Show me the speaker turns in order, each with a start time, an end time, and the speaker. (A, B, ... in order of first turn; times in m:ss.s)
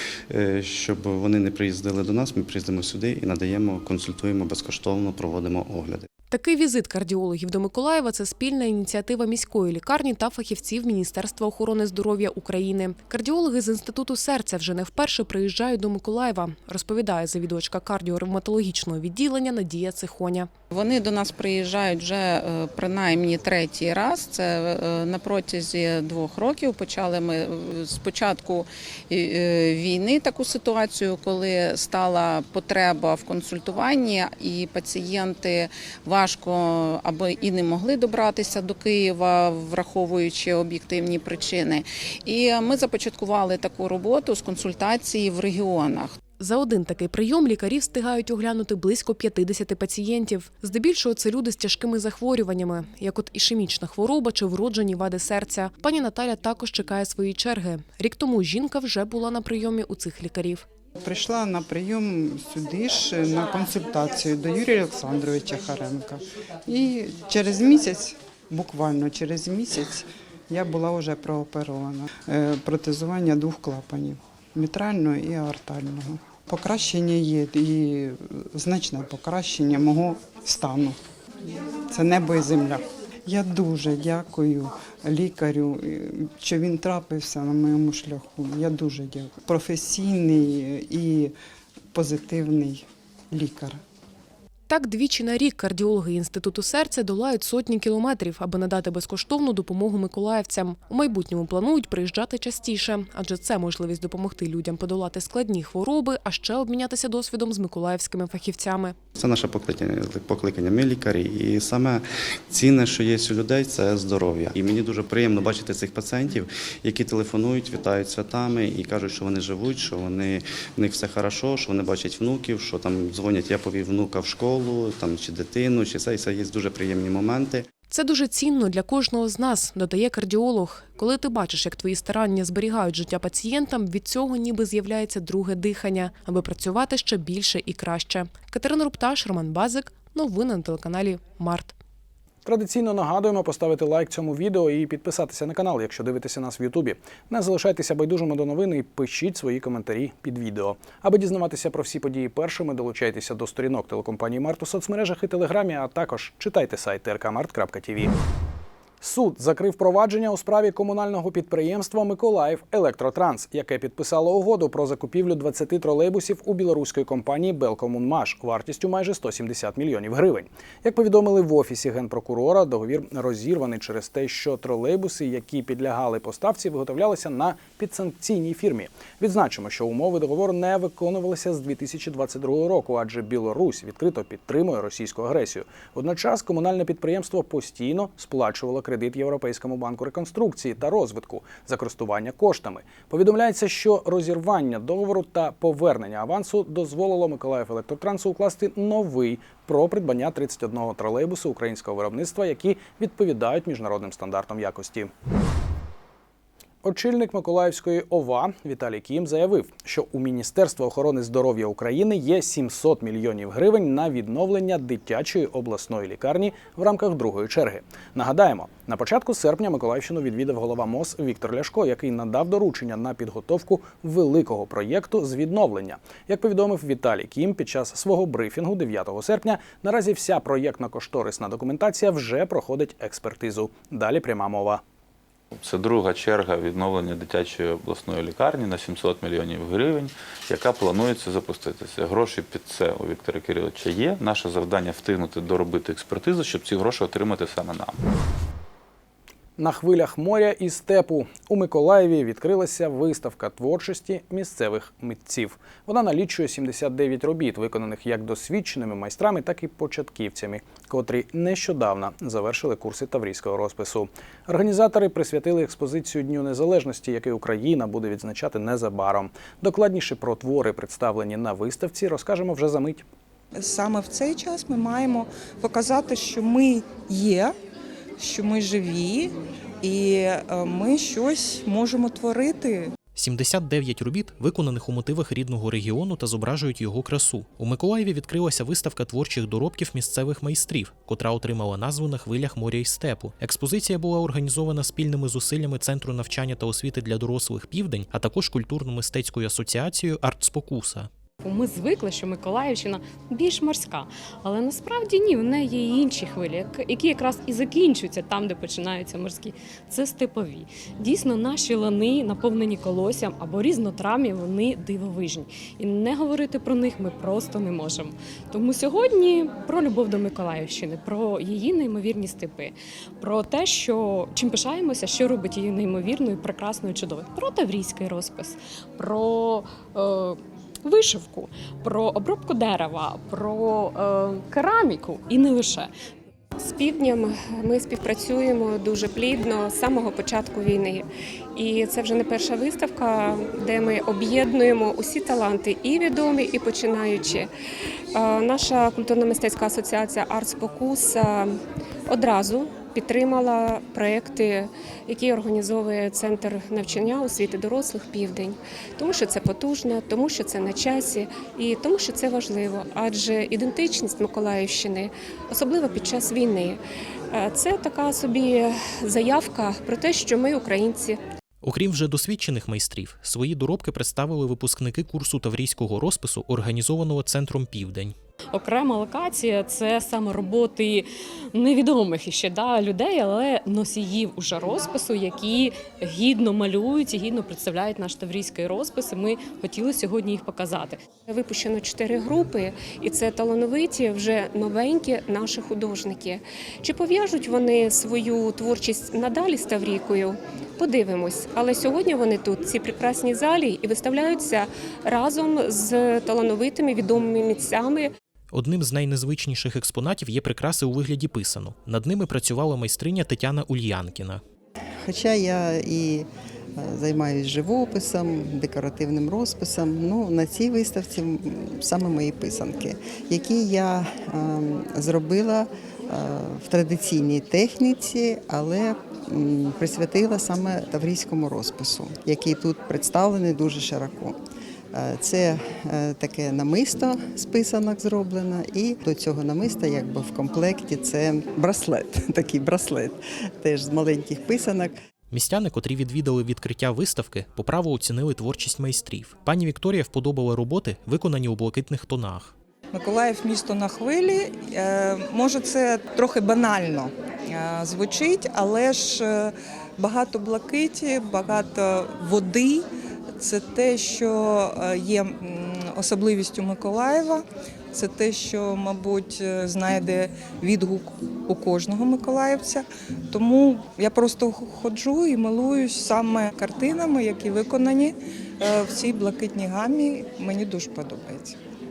0:00.3-0:06.1 A
0:06.3-0:20.5 B
0:20.7-0:46.2 C
0:46.4-1:00.6 B
1:01.0-1:21.0 D
1:21.9-1:31.3 D
1:31.9-1:33.8 D
1:34.7-1:49.0 B
1:49.2-2:07.6 A
2:07.9-2:21.7 B
2:22.4-2:38.1 E
2:39.0-3:25.1 E
3:26.8-3:54.8 E
3:55.6-4:08.0 F
4:09.6-4:33.0 E
4:33.5-4:37.5 G
4:38.2-4:42.9 G
4:43.1-5:01.1 H
5:01.4-5:35.9 I
5:36.6-5:41.0 J
5:41.6-5:47.5 J
5:48.1-5:51.5 J
5:52.1-6:06.8 J
6:07.3-6:11.2 J
6:11.6-6:18.1 H
6:18.5-6:31.0 I
6:31.3-6:48.1 J
6:48.5-6:54.4 H
6:55.0-6:56.2 K
6:56.8-7:14.4 K
7:14.9-7:24.9 K
7:25.3-7:32.5 H
7:32.9-7:42.8 G
7:43.4-8:01.6 G